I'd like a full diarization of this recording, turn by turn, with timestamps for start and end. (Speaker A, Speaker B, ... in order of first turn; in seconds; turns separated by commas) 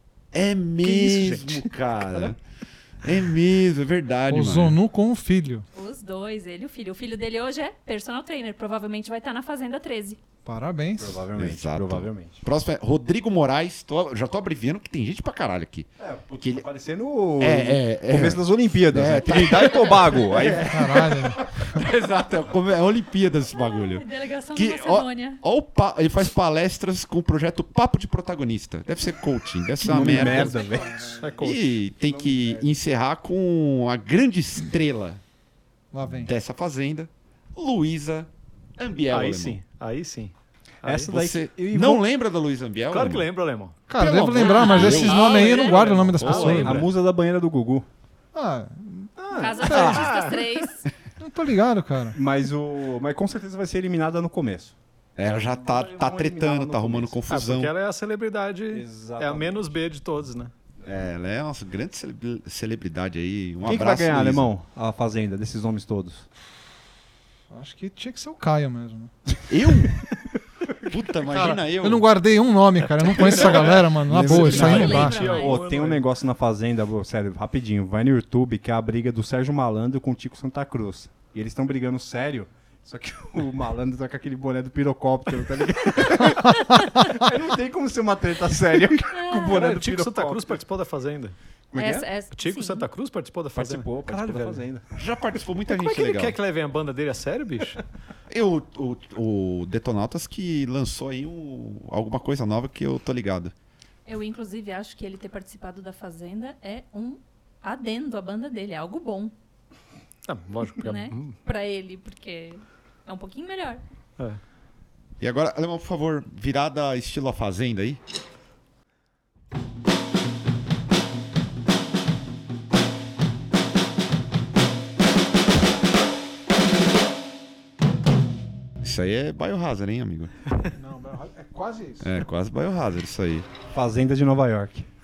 Speaker A: 0.3-2.4, Speaker B: 0.8-2.3, Speaker A: 3.0-4.8, Speaker C: 4.3-5.7, Speaker D: 5.7-10.2, Speaker C: 10.4-11.2, Speaker E: 11.0-12.4, Speaker A: 11.4-16.6, Speaker E: 16.0-20.9, Speaker A: 17.4-30.6, Speaker C: 20.7-21.8, Speaker D: 23.5-25.4, Speaker E: 29.8-31.2, Speaker C: 29.9-31.3, Speaker B: 31.2-31.8, Speaker A: 31.4-35.2, Speaker E: 31.9-32.8, Speaker C: 35.9-36.3, Speaker A: 36.1-39.6, Speaker B: 39.1-41.1, Speaker E: 40.8-42.0, Speaker A: 41.0-43.3, Speaker B: 42.9-43.9, Speaker C: 43.9-46.9, Speaker A: 44.0-45.4, Speaker D: 44.3-45.8, Speaker B: 44.6-46.9, Speaker A: 46.2-46.6, Speaker E: 46.5-47.9, Speaker C: 48.3-50.1, Speaker B: 49.3-50.4, Speaker E: 49.3-49.7, Speaker D: 49.3-50.9, Speaker C: 51.2-52.2, Speaker E: 52.1-54.7, Speaker A: 55.2-57.7, Speaker E: 55.2-57.2, Speaker B: 57.3-60.5, Speaker E: 58.7-59.8, Speaker A: 60.8-64.5, Speaker E: 63.6-66.3, Speaker C: 67.5-69.1, Speaker A: 69.5-70.0, Speaker A: 70.8-72.1, Speaker C: 71.3-75.3, Speaker B: 73.1-76.0, Speaker A: 73.3-74.9, Speaker E: 74.1-90.6, Speaker D: 74.3-75.6, Speaker C: 86.4-87.0, Speaker D: 89.1-89.6, Speaker B: 89.4-91.3, Speaker E: 91.7-92.1, Speaker D: 91.7-92.8, Speaker B: 92.3-94.6, Speaker E: 93.5-94.8, Speaker A: 95.0-96.4, Speaker B: 95.7-97.8, Speaker A: 98.3-103.5, Speaker D: 104.0-109.3, Speaker B: 110.3-111.3, Speaker D: 110.8-113.8, Speaker A: 115.2-118.0, Speaker A: 128.8-130.3, Speaker C: 130.7-132.1, Speaker A: 132.0-133.5, Speaker E: 133.7-134.9